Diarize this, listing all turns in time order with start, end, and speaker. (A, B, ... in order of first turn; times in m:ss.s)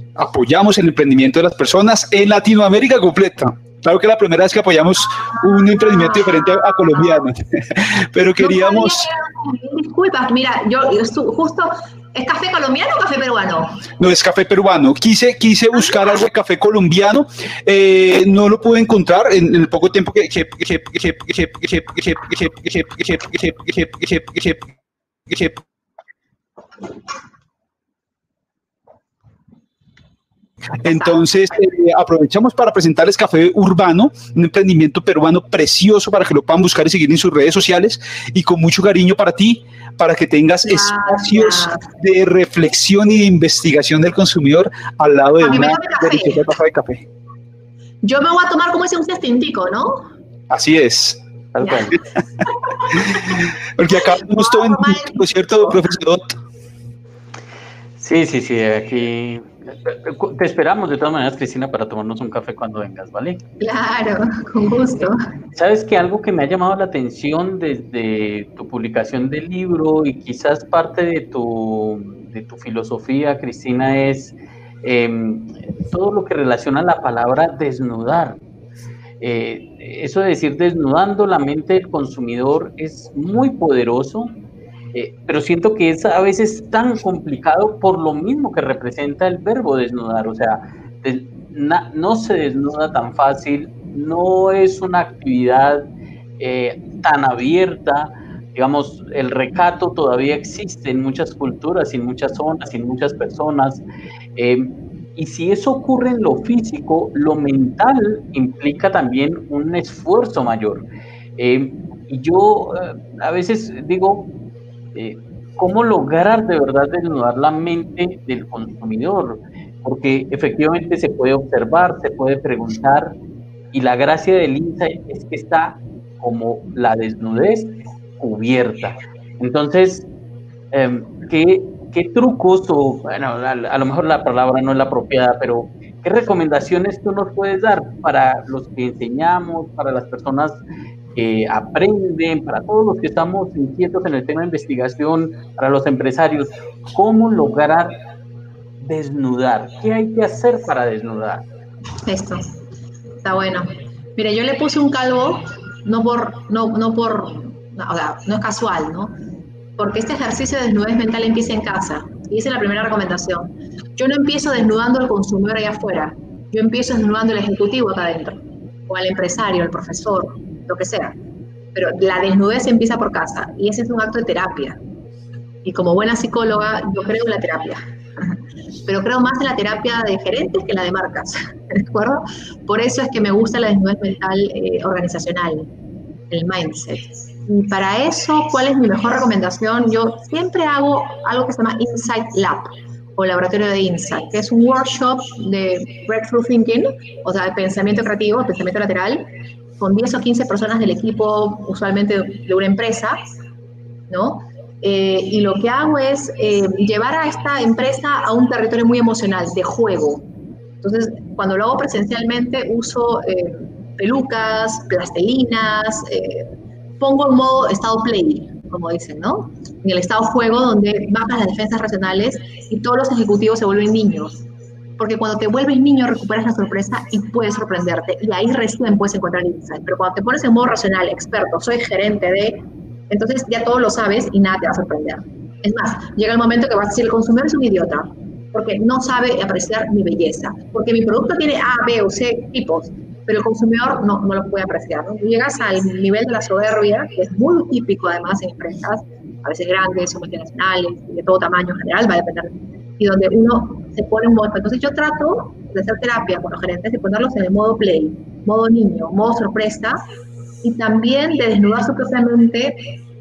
0:00.2-0:09.1 A
0:05.2-0:07.3 B
0:08.4-0:13.9 B
0:14.0-0:24.7 A
0:25.3-0:25.6 A
0:30.7-0:31.5 B
0:30.8-0:47.0 A
0:40.6-0:41.9 B
0:45.4-0:46.4 B
0:48.0-0:50.1 B
0:50.5-0:51.2 A
0:51.5-0:52.0 C
0:51.6-0:51.9 B
0:53.0-0:56.4 A
0:54.2-0:55.9 B
0:58.0-1:03.4 C
1:03.6-1:05.2 B
1:05.5-1:18.4 C
1:19.2-1:24.3 C
1:24.9-1:43.8 C
1:44.4-1:50.8 C
1:51.4-1:54.3 C
1:54.9-2:03.1 C
2:03.7-2:10.0 C
2:10.7-2:20.6 C
2:21.1-2:27.9 C
2:28.8-2:31.4 C
2:32.0-2:32.5 B
2:33.2-2:39.1 B
2:39.8-2:51.2 B
2:51.7-2:54.8 B
2:55.6-3:05.7 B
3:06.3-3:23.2 B
3:24.1-3:30.3 B
3:30.8-3:44.4 B
3:45.0-4:20.0 B
4:20.6-4:22.9 B